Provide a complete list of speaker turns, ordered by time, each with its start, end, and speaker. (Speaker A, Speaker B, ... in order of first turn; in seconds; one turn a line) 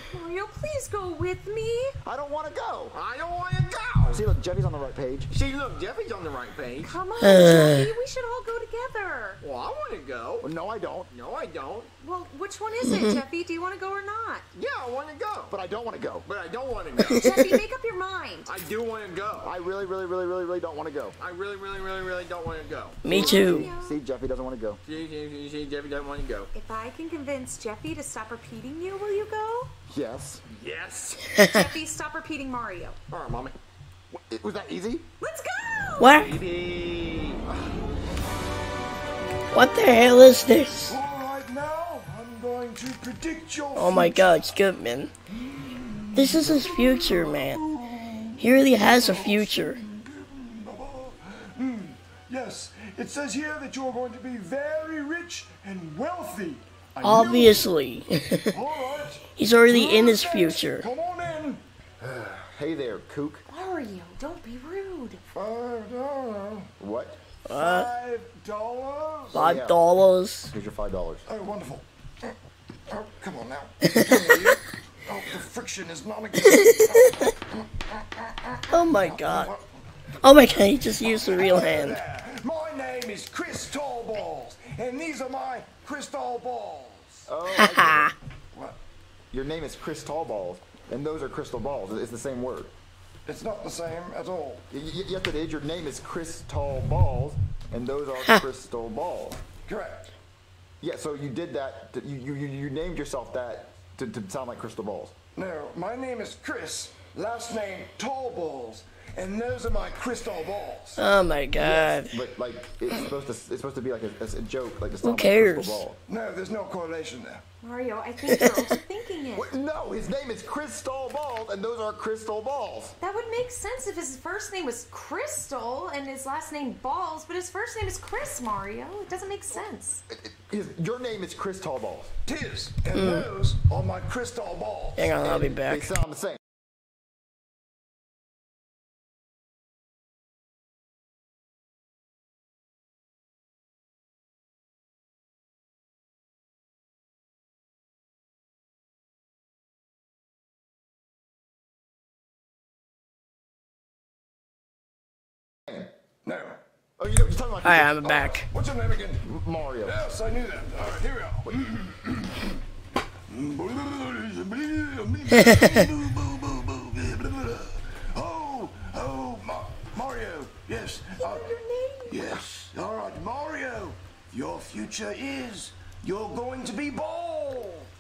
Speaker A: 0.1-1.9
Speaker B: 2.0-3.0
Speaker C: 2.9-4.2
Speaker B: 4.1-5.3
Speaker C: 5.3-7.0
Speaker A: 6.8-9.4
Speaker D: 7.2-7.9
Speaker C: 9.4-10.5
Speaker B: 10.4-11.1
Speaker C: 11.1-11.9
Speaker A: 12.0-14.4
Speaker D: 12.8-13.2
Speaker C: 14.5-15.6
Speaker B: 15.5-16.3
Speaker C: 16.2-17.4
Speaker D: 17.0-17.5
Speaker A: 17.1-18.5
Speaker C: 18.4-19.5
Speaker B: 19.4-21.2
Speaker C: 21.2-23.1
Speaker D: 23.0-23.7
Speaker A: 23.1-24.0
Speaker B: 23.1-24.8
Speaker C: 24.8-26.5
Speaker A: 26.5-29.7
Speaker B: 29.9-30.4
Speaker C: 30.5-31.4
Speaker A: 31.4-33.0
Speaker C: 33.1-33.5
Speaker B: 34.1-35.1
Speaker A: 35.2-36.1
Speaker D: 36.0-36.4
Speaker C: 36.1-37.5
Speaker D: 39.5-40.9
Speaker E: 40.9-44.4
Speaker D: 43.8-45.1
Speaker E: 45.3-57.7
Speaker D: 46.1-47.6
Speaker D: 48.4-49.8
Speaker D: 57.0-58.5
Speaker E: 58.5-61.6
Speaker D: 59.4-60.9
Speaker B: 62.0-63.4
Speaker A: 63.5-65.2
Speaker E: 65.3-66.7
Speaker B: 66.8-67.2
Speaker D: 67.5-67.9
Speaker E: 67.5-69.4
Speaker B: 69.3-69.8
Speaker D: 69.3-70.5
Speaker B: 70.5-71.2
Speaker E: 71.3-72.3
Speaker E: 72.9-79.6
Speaker D: 78.7-79.5
Speaker D: 80.2-82.0
Speaker E: 81.0-87.3
Speaker B: 87.3-88.1
Speaker D: 87.5-88.1
Speaker B: 89.3-92.7
Speaker E: 93.2-94.6
Speaker B: 94.7-99.4
Speaker E: 99.7-100.1
Speaker B: 100.8-105.1
Speaker E: 105.3-111.0
Speaker D: 111.0-112.1
Speaker B: 111.5-116.0
Speaker D: 115.0-115.8
Speaker E: 116.1-117.4
Speaker A: 117.6-119.5
Speaker D: 118.3-118.6
Speaker B: 119.3-123.0
Speaker A: 123.0-130.0
Speaker B: 130.1-132.1
Speaker E: 132.2-135.2
Speaker D: 132.9-133.3
Speaker D: 134.9-135.9
Speaker B: 135.2-136.4
Speaker E: 156.2-156.6
Speaker B: 157.0-158.0
Speaker D: 157.6-158.5
Speaker E: 158.0-159.2
Speaker B: 159.2-160.0
Speaker E: 159.8-162.6
Speaker E: 163.3-171.5
Speaker A: 171.2-172.4
Speaker E: 172.1-177.9